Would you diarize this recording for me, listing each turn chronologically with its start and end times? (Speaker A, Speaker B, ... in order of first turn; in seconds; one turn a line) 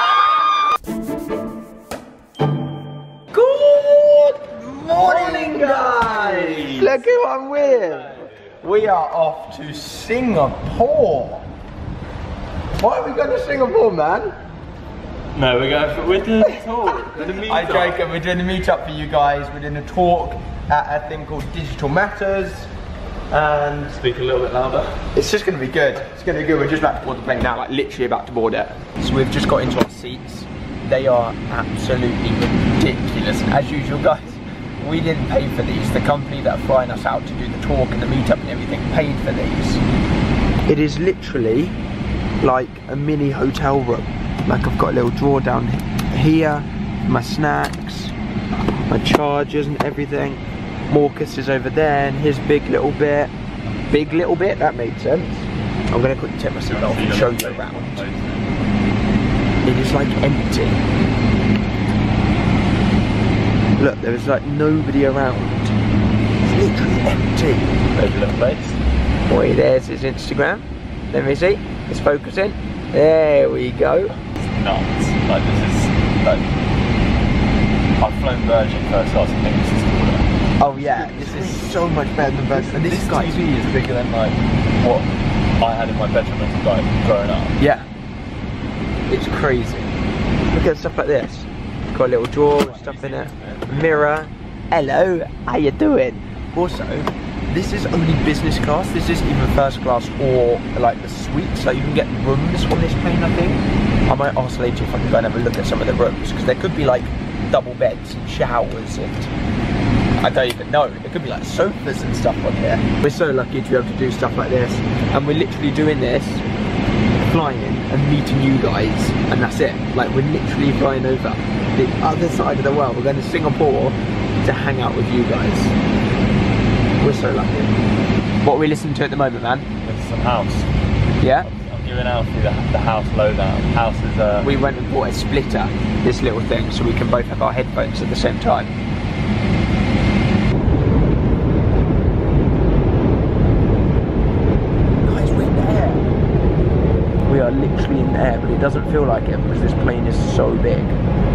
Speaker A: 3.3-11.5
Speaker B: 6.0-7.0
Speaker A: 12.8-14.3
Speaker B: 15.3-18.0
Speaker A: 17.3-22.7
Speaker A: 23.3-24.0
Speaker B: 23.9-25.0
Speaker A: 25.1-39.8
Speaker A: 40.7-41.8
Speaker A: 42.4-48.1
Speaker A: 48.9-53.3
Speaker A: 53.9-58.0
Speaker B: 56.7-58.5
Speaker A: 59.6-60.8
Speaker A: 63.8-65.8
Speaker A: 66.4-67.8
Speaker B: 67.9-68.8
Speaker A: 69.3-74.2
Speaker B: 74.6-76.5
Speaker B: 78.0-81.8
Speaker A: 80.6-83.4
Speaker B: 82.5-87.6
Speaker A: 87.6-87.9
Speaker A: 89.1-89.9
Speaker A: 90.5-109.3
Speaker B: 92.6-94.2
Speaker A: 110.2-116.4
Speaker A: 117.2-125.8
Speaker A: 127.0-127.8
Speaker A: 128.4-129.7
Speaker B: 129.8-130.7
Speaker A: 131.2-131.5
Speaker B: 131.4-134.5
Speaker A: 134.4-138.8
Speaker A: 145.0-146.1
Speaker A: 147.2-151.0